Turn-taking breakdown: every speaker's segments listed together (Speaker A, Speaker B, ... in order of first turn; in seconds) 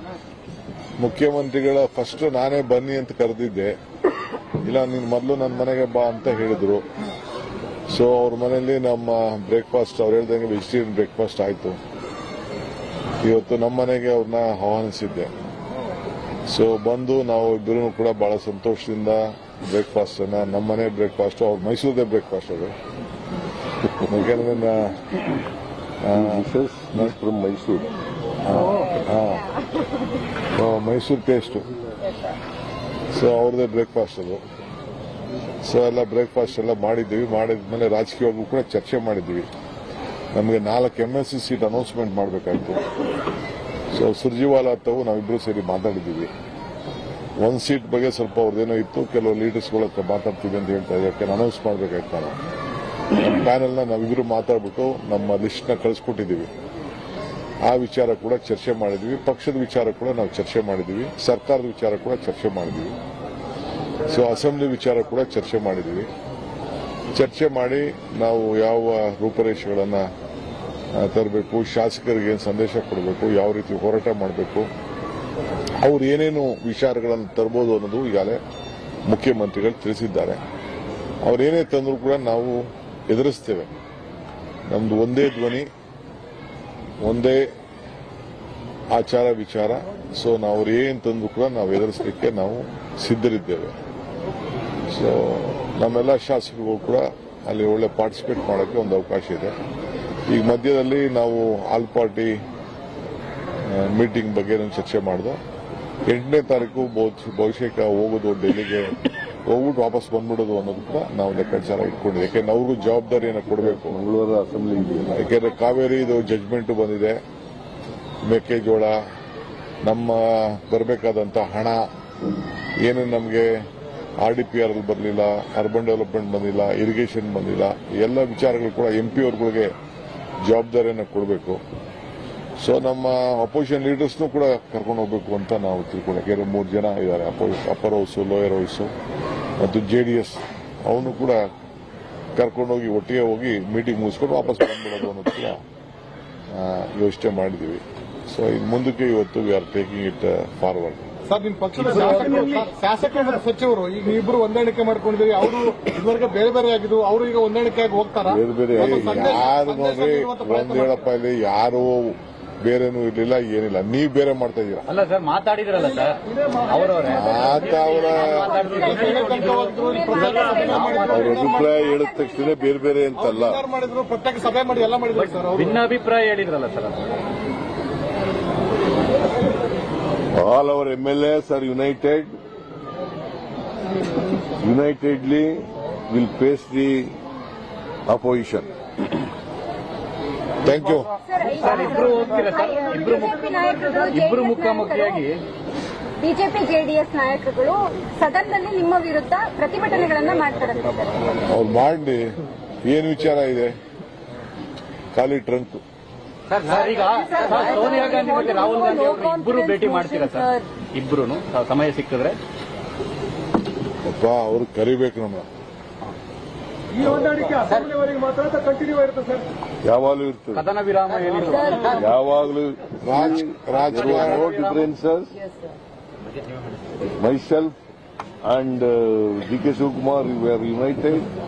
Speaker A: 1.0-3.7, 4.6-6.8, 7.9-11.8, 13.2-15.3, 16.5-22.7, 24.0-25.1, 26.0-27.1, 28.4-29.4, 30.5-31.6, 33.1-34.4, 35.6-39.5, 40.3-42.8, 43.9-46.3, 47.4-52.4, 53.1-56.5, 57.6-62.9, 64.0-66.1, 67.1-70.1, 70.9-74.7, 75.8-78.4, 79.1-80.4, 81.2-83.7, 84.7-85.7, 87.0-87.5, 88.9-93.7, 94.9-99.5, 100.3-102.4, 103.7-105.4, 106.0-114.0, 115.1-117.2, 118.2-119.0, 119.8-121.8, 122.8-123.5, 124.2-129.7, 130.4-131.6, 132.6-138.9, 139.6-141.4, 142.4-145.6, 146.5-151.1, 158.8-164.9, 167.0-168.6, 190.6-191.1, 201.5-203.8, 205.1-205.8, 214.1-215.5, 217.0-217.5, 223.0-224.4
Speaker B: 26.1-27.9, 113.5-115.2, 158.3-159.4, 171.1-173.6, 180.3-182.3, 184.6-187.2, 188.1-188.7, 219.8-220.7, 221.9-225.4, 227.1-227.8, 228.4-231.3
Speaker C: 151.3-160.9, 168.7-171.8, 173.2-175.8
Speaker D: 151.9-152.4, 164.9-171.3, 175.2-177.0, 191.6-195.4, 206.5-212.4, 217.5-218.1, 220.6-222.0, 223.9-224.8
Speaker E: 167.8-172.8, 191.2-195.2, 196.2-201.4, 207.2-208.5